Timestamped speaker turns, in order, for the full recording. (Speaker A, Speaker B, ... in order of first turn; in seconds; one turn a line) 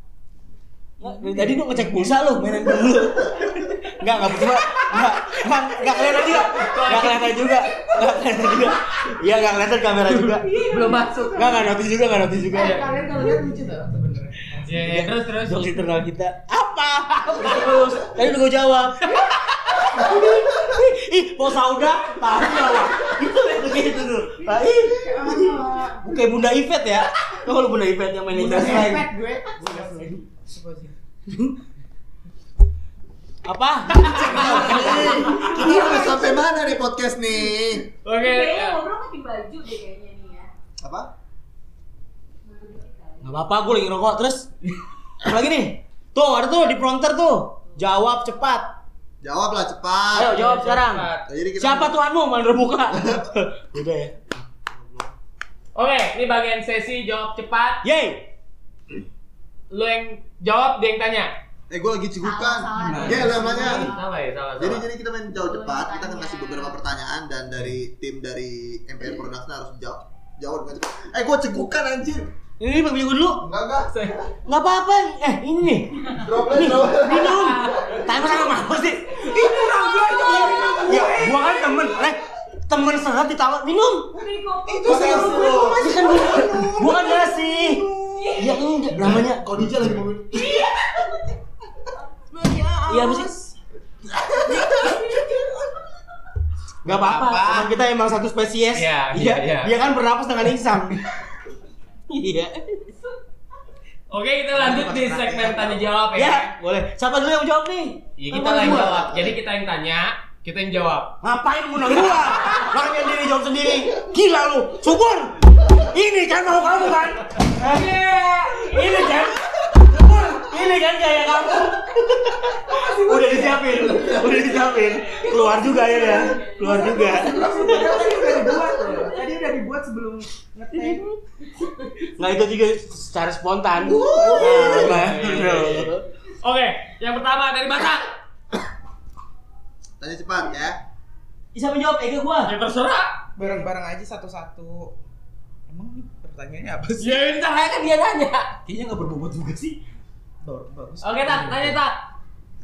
Speaker A: 1.0-10.4
Speaker B: 1.0-1.9
Speaker B: 5.9-6.4
Speaker C: 6.1-7.4
Speaker B: 7.1-9.1
Speaker C: 10.1-11.7
Speaker B: 10.4-11.7
Speaker A: 11.4-12.9
Speaker B: 12.5-14.7
Speaker C: 12.5-12.9
Speaker C: 14.6-15.8
Speaker A: 14.7-30.3
Speaker B: 24.4-26.0
Speaker B: 28.3-30.9
Speaker A: 31.3-31.6
Speaker A: 33.5-35.9
Speaker C: 33.9-35.5
Speaker D: 34.3-37.9
Speaker E: 35.4-36.6
Speaker C: 38.0-38.8
Speaker E: 38.1-40.5
Speaker D: 40.8-41.1
Speaker E: 42.4-43.3
Speaker A: 43.2-44.5
Speaker A: 45.2-48.7
Speaker D: 49.2-50.3
Speaker A: 50.1-54.5
Speaker C: 50.2-51.3
Speaker D: 51.3-52.0
Speaker D: 52.9-53.3
Speaker C: 55.8-57.9
Speaker A: 57.8-58.3
Speaker C: 59.7-61.3
Speaker D: 61.7-64.0
Speaker E: 62.2-64.0
Speaker B: 62.8-63.9
Speaker C: 63.3-64.9
Speaker D: 64.6-72.3
Speaker E: 65.4-66.8
Speaker A: 72.6-73.5
Speaker D: 73.4-74.3
Speaker C: 73.9-74.2
Speaker A: 74.5-79.3
Speaker D: 76.1-78.1
Speaker C: 77.0-78.2
Speaker B: 79.1-81.8
Speaker A: 80.5-84.2
Speaker E: 84.1-85.6
Speaker B: 84.7-88.5
Speaker D: 84.9-85.8
Speaker A: 85.1-89.6
Speaker E: 88.1-88.7
Speaker D: 89.0-90.7
Speaker E: 90.3-91.3
Speaker B: 92.3-93.3
Speaker A: 92.9-93.6
Speaker D: 94.1-95.0
Speaker E: 94.8-95.7
Speaker A: 96.8-101.0
Speaker B: 96.9-97.7
Speaker C: 98.7-99.9
Speaker A: 102.1-102.5
Speaker C: 104.1-106.5
Speaker A: 104.5-109.1
Speaker C: 108.2-111.2
Speaker D: 108.7-109.3
Speaker A: 111.2-128.1
Speaker C: 112.2-112.6
Speaker B: 122.7-131.2
Speaker E: 125.3-127.1
Speaker A: 130.7-131.1
Speaker A: 132.2-136.1
Speaker B: 133.8-135.0
Speaker D: 134.0-134.7
Speaker C: 134.5-138.1
Speaker D: 140.0-140.8
Speaker A: 141.5-142.5
Speaker C: 142.4-143.3
Speaker B: 143.4-144.9
Speaker B: 145.7-147.2
Speaker C: 147.0-148.6
Speaker A: 148.7-149.8
Speaker B: 150.4-151.5
Speaker C: 151.0-152.0
Speaker A: 151.3-151.8